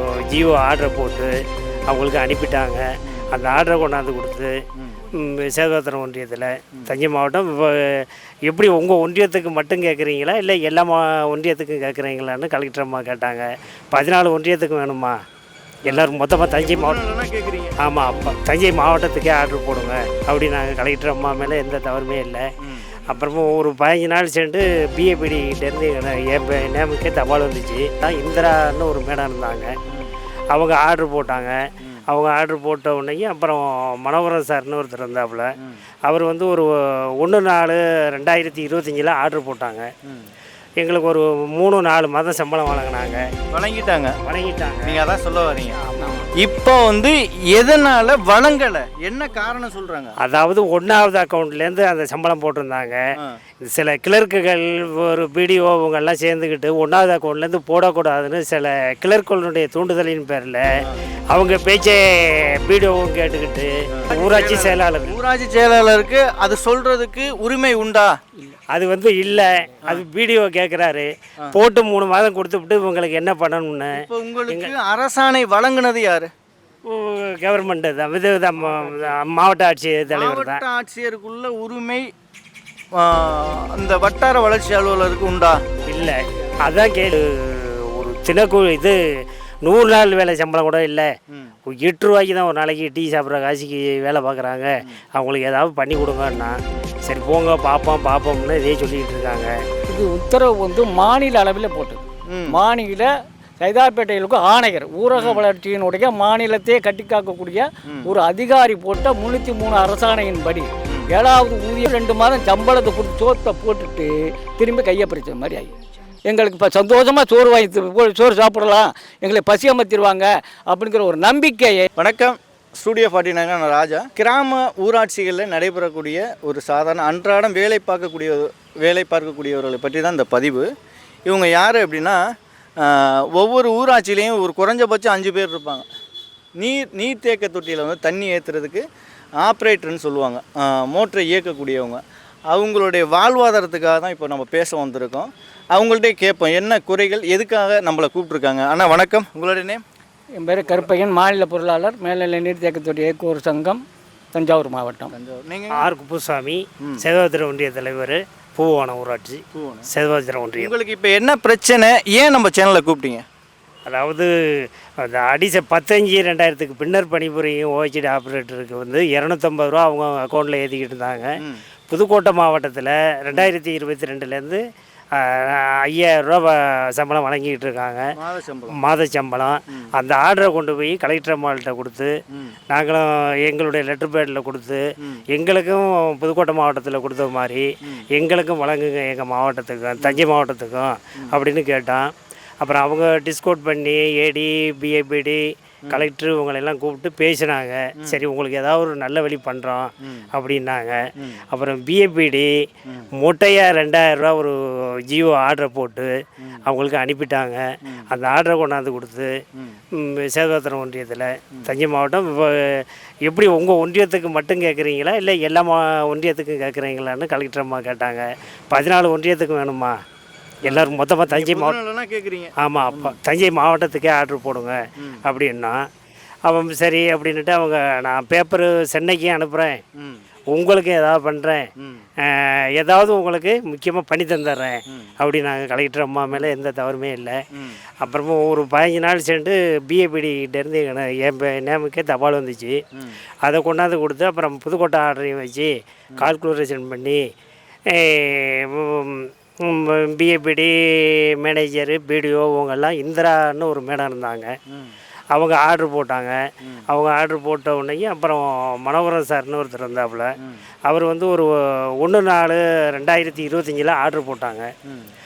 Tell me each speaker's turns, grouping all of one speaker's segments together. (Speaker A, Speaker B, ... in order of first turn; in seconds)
Speaker A: 0.3-1.3, 1.9-2.8, 3.3-4.5, 5.2-7.8, 8.5-15.2, 15.8-17.0, 17.8-22.4, 23.1-29.7, 30.5-31.6, 32.1-35.5, 36.1-36.7, 37.2-39.9, 40.8-43.2, 44.3-45.0, 45.9-46.2, 50.2-53.0, 53.7-60.6, 61.3-65.2, 68.7-74.7, 76.9-80.6, 85.9-89.0, 89.7-91.1, 91.7-96.6, 97.1-99.5, 155.7-160.7, 163.9-164.3, 165.0-171.3, 171.9-174.6, 175.2-178.1, 178.7-182.1, 182.7-184.8, 185.3-192.1, 192.6-201.0, 201.5-202.5, 203.2-204.6, 205.1-206.1, 206.7-209.3, 210.0-219.9, 220.6-221.8, 222.6-225.8, 226.5-229.8, 230.5-231.6, 232.3-237.4, 238.0-242.8, 243.4-247.2, 247.9-254.5, 255.3-256.4, 256.9-260.3, 260.9-261.5, 262.0-264.7
Speaker B: 15.9-18.4, 43.5-44.1, 44.8-45.8, 46.4-50.1, 64.0-68.2, 74.0-76.3, 80.1-82.1, 83.0-85.6, 102.3-102.6, 105.2-105.4, 107.9-108.1, 122.0-130.7, 131.3-132.2, 132.8-135.9, 136.6-138.8, 139.4-149.8, 155.1-155.8, 159.6-159.9, 160.6-163.2, 178.2-178.8, 220.7-223.2, 230.0-230.2, 237.6-237.8
Speaker C: 46.0-46.3, 99.9-115.7, 116.3-121.9, 150.4-153.8, 154.3-155.1